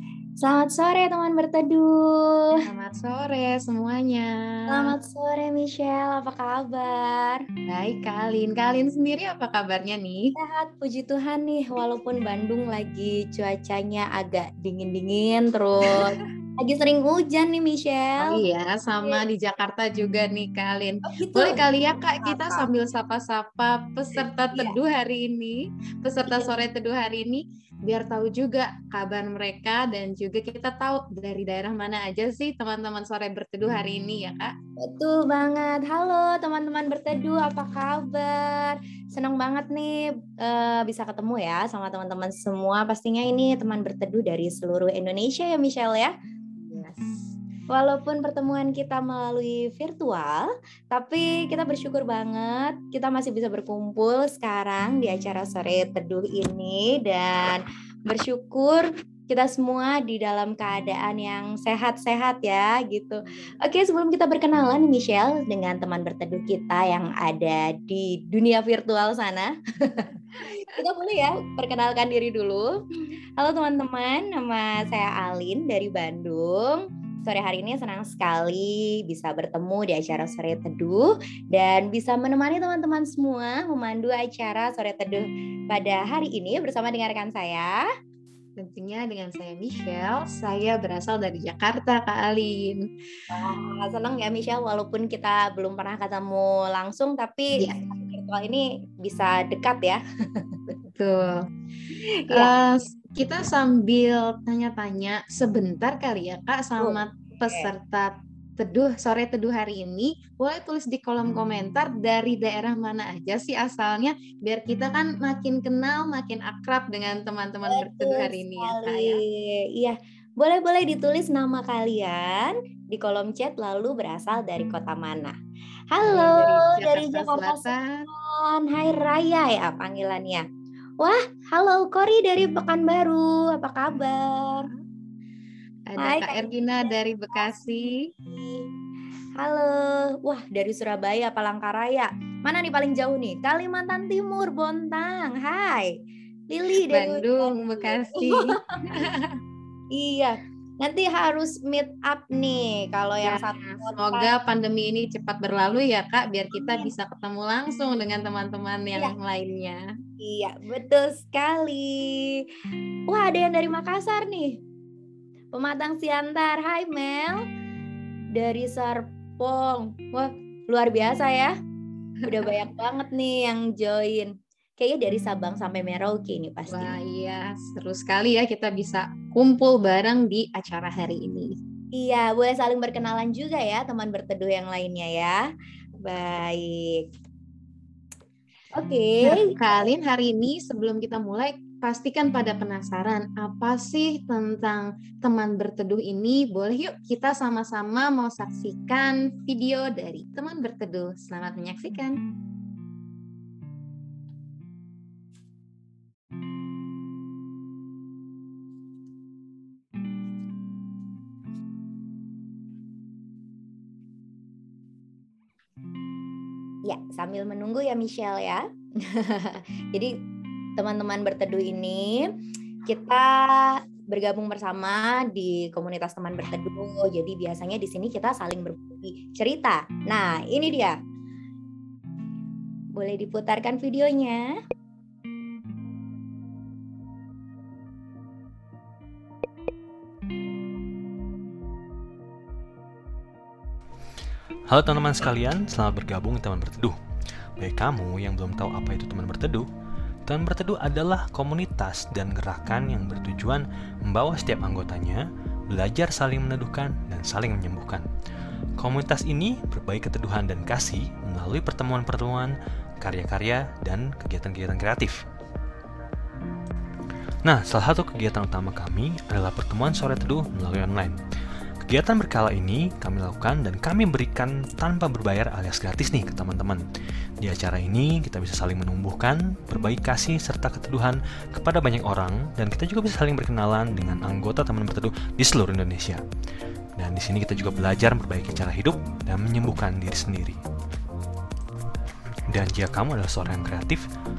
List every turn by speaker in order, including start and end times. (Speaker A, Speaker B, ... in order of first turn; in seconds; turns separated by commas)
Speaker A: 0.4-2.5, Speaker B: 2.6-4.9, Speaker A: 4.7-7.4, Speaker B: 7.7-10.3, Speaker A: 10.3-18.4, Speaker B: 15.8-16.1, Speaker B: 18.2-34.5, Speaker A: 21.1-21.6, Speaker A: 22.2-22.7, Speaker A: 26.2-26.6, Speaker A: 34.8-46.1, Speaker A: 46.7-72.8, Speaker A: 73.4-87.8, Speaker B: 88.6-92.9, Speaker A: 93.3-100.5, Speaker B: 100.9-101.5, Speaker A: 102.0-102.5, Speaker B: 102.3-119.2, Speaker A: 106.8-107.7, Speaker A: 117.7-125.3, Speaker A: 125.9-130.4, Speaker B: 126.0-128.1, Speaker A: 131.0-134.7, Speaker B: 135.9-138.1, Speaker A: 136.0-138.7, Speaker A: 139.4-145.9, Speaker A: 146.5-148.8, Speaker B: 146.8-149.4, Speaker A: 149.9-154.3, Speaker B: 153.2-159.8, Speaker A: 156.6-156.9, Speaker A: 160.2-162.4, Speaker A: 163.1-164.6, Speaker A: 165.5-167.4, Speaker A: 168.3-171.5, Speaker B: 172.2-172.6, Speaker A: 172.2-176.9, Speaker B: 176.7-181.6, Speaker A: 181.9-185.4, Speaker A: 186.0-187.1, Speaker A: 188.8-189.6, Speaker B: 189.2-202.2, Speaker A: 216.9-220.1, Speaker A: 220.8-222.3, Speaker A: 222.9-230.9, Speaker A: 232.9-234.5, Speaker C: 244.7-247.0, Speaker C: 247.6-249.7, Speaker C: 250.2-258.1, Speaker C: 258.8-265.2, Speaker C: 267.4-271.2, Speaker C: 271.8-276.8, Speaker C: 277.4-286.2, Speaker C: 287.0-290.6, Speaker C: 292.5-294.1